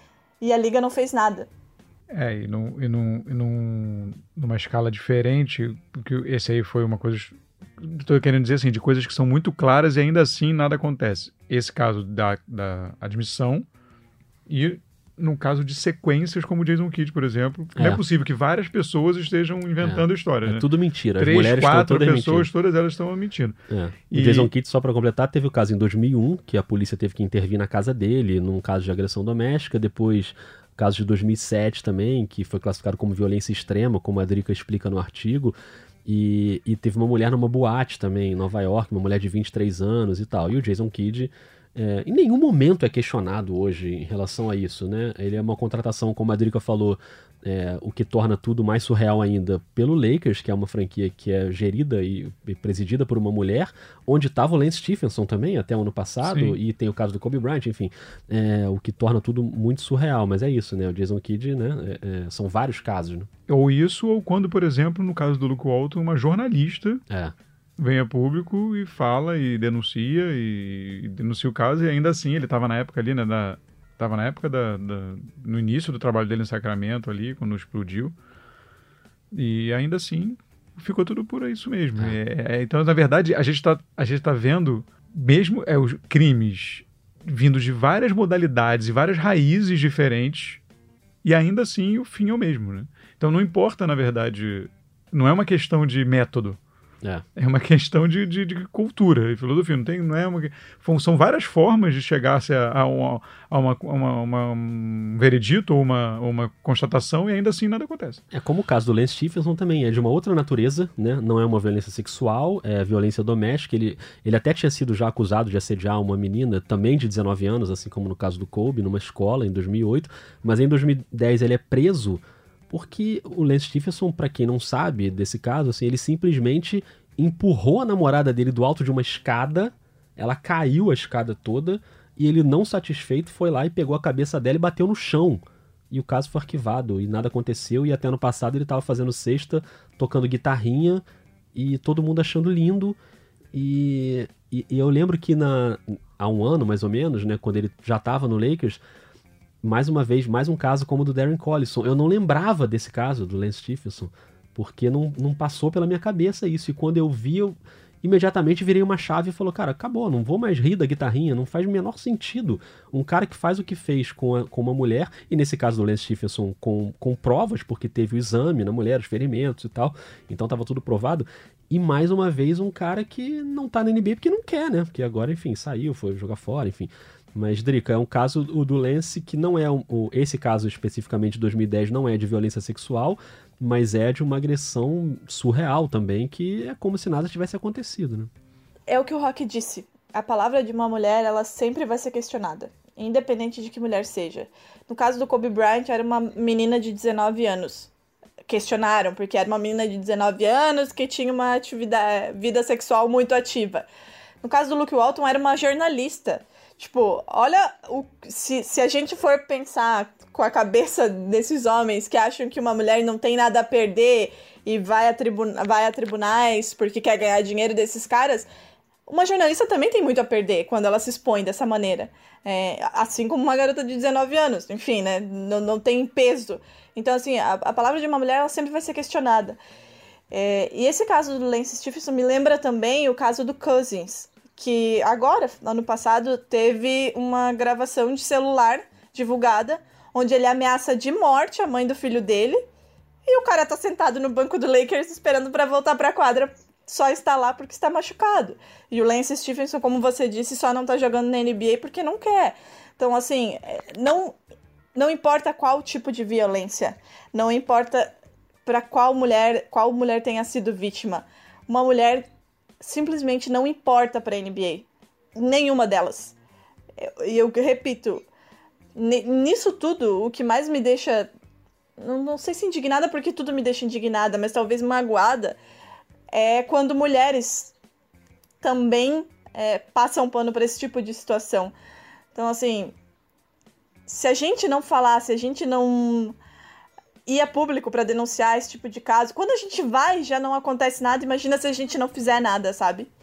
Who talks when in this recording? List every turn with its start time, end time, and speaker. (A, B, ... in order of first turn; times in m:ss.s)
0:00.4-0:01.5 A
0:02.1-0:13.7 B
0:14.5-0:20.7 B
0:17.8-0:18.0 C
0:19.8-0:22.5 C
0:21.2-0:23.6 B
0:23.7-0:35.5 C
0:24.1-0:24.5 B
0:36.0-1:03.3 C
0:56.2-0:56.6 B
1:03.5-1:07.0 B
1:07.1-1:07.4 C
1:07.8-1:18.2 B
1:19.3-1:30.6 B
1:31.2-1:36.6 B
1:37.4-1:48.2 B
1:48.3-2:21.0 C
2:21.6-2:23.0 C
2:23.5-2:28.8 C
2:29.6-3:08.3 C
3:08.9-3:17.9 A
3:18.5-3:23.9 A
3:24.4-3:38.5 A
3:39.1-3:49.6 A
3:50.3-4:02.6 A
4:03.3-4:14.4 A
4:15.0-4:18.1 A
4:18.7-4:22.3 A
4:22.8-4:26.4 A
4:27.0-4:28.3 A
4:29.0-4:31.3 A
4:32.0-4:35.6 A
4:36.3-4:37.7 A
4:38.6-4:41.7 A
4:42.3-4:43.0 A
4:44.1-4:46.4 A
4:47.3-4:53.1 A